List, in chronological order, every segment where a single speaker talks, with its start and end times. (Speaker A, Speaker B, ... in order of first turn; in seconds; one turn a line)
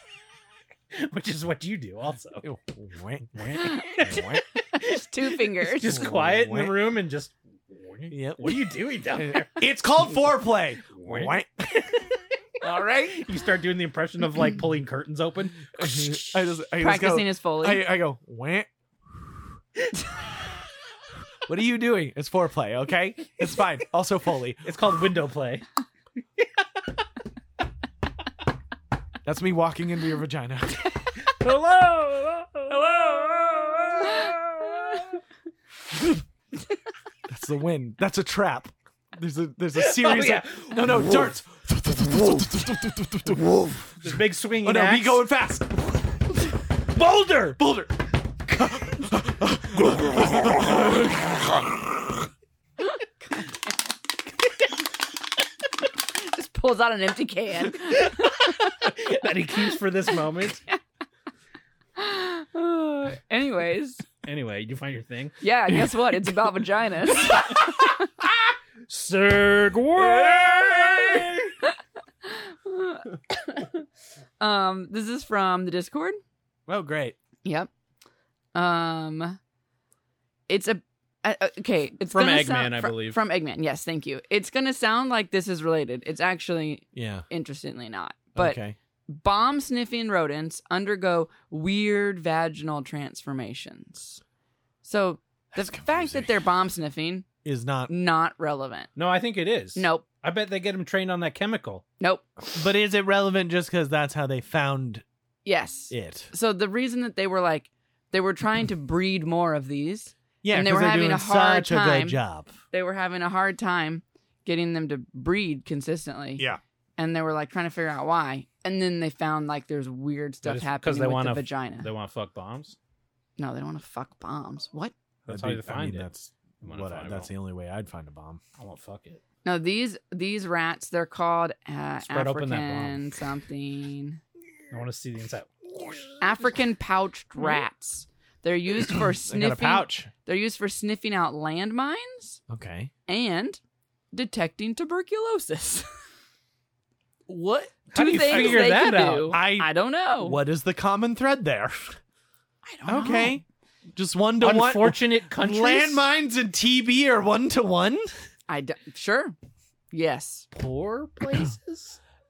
Speaker A: 0.9-2.5
Speaker B: 2.4-4.4
Speaker A: 3.4-4.4
Speaker C: 3.5-6.1
Speaker A: 5.4-9.6
Speaker B: 5.8-6.8
Speaker B: 8.1-11.7
Speaker A: 10.9-12.1
Speaker B: 12.7-13.2
Speaker C: 12.7-13.1
Speaker A: 13.1-16.2
Speaker B: 15.8-19.5
Speaker C: 16.8-17.9
Speaker B: 21.5-24.9
Speaker A: 24.6-25.7
Speaker B: 29.2-31.1
Speaker A: 31.2-35.2
Speaker B: 37.3-44.1
Speaker A: 39.8-41.4
Speaker A: 42.0-42.5
Speaker A: 43.3-45.2
Speaker B: 44.6-46.5
Speaker A: 46.9-47.6
Speaker B: 47.6-51.9
Speaker C: 52.8-53.6
Speaker C: 56.1-58.8
Speaker A: 58.8-60.6
Speaker C: 62.0-64.1
Speaker A: 64.2-65.3
Speaker C: 65.4-68.0
Speaker B: 65.7-66.2
Speaker A: 67.3-68.3
Speaker A: 68.9-71.5
Speaker B: 70.0-71.3
Speaker C: 71.7-73.6
Speaker C: 74.4-76.2
Speaker B: 76.7-77.2
Speaker C: 77.4-77.7
Speaker C: 78.5-79.4
Speaker C: 80.5-94.2
Speaker A: 82.1-83.2
Speaker B: 86.9-87.3
Speaker B: 88.4-88.8
Speaker C: 94.8-97.3
Speaker B: 95.5-96.4
Speaker B: 97.4-97.9
Speaker C: 97.9-98.9
Speaker A: 99.0-101.8
Speaker C: 99.8-100.1
Speaker C: 102.0-102.2
Speaker B: 102.5-105.0
Speaker C: 105.5-112.2
Speaker B: 105.9-106.3
Speaker B: 110.4-112.5
Speaker C: 112.7-116.4
Speaker C: 117.0-121.9
Speaker A: 120.5-122.8
Speaker C: 123.4-124.9
Speaker A: 125.3-126.1
Speaker B: 125.3-128.4
Speaker A: 126.6-127.3
Speaker A: 128.6-129.2
Speaker C: 129.4-134.2
Speaker A: 132.1-133.2
Speaker A: 134.7-135.5
Speaker C: 136.2-142.4
Speaker B: 139.3-140.1
Speaker B: 142.5-142.9
Speaker C: 143.1-143.6
Speaker C: 144.1-145.9
Speaker B: 147.3-149.7
Speaker A: 147.9-149.4
Speaker C: 147.9-150.4
Speaker B: 150.2-152.0
Speaker C: 152.7-153.4
Speaker B: 152.8-153.4
Speaker B: 153.9-158.1
Speaker A: 154.4-156.1
Speaker C: 158.5-159.3
Speaker C: 159.9-160.5
Speaker A: 160.5-162.0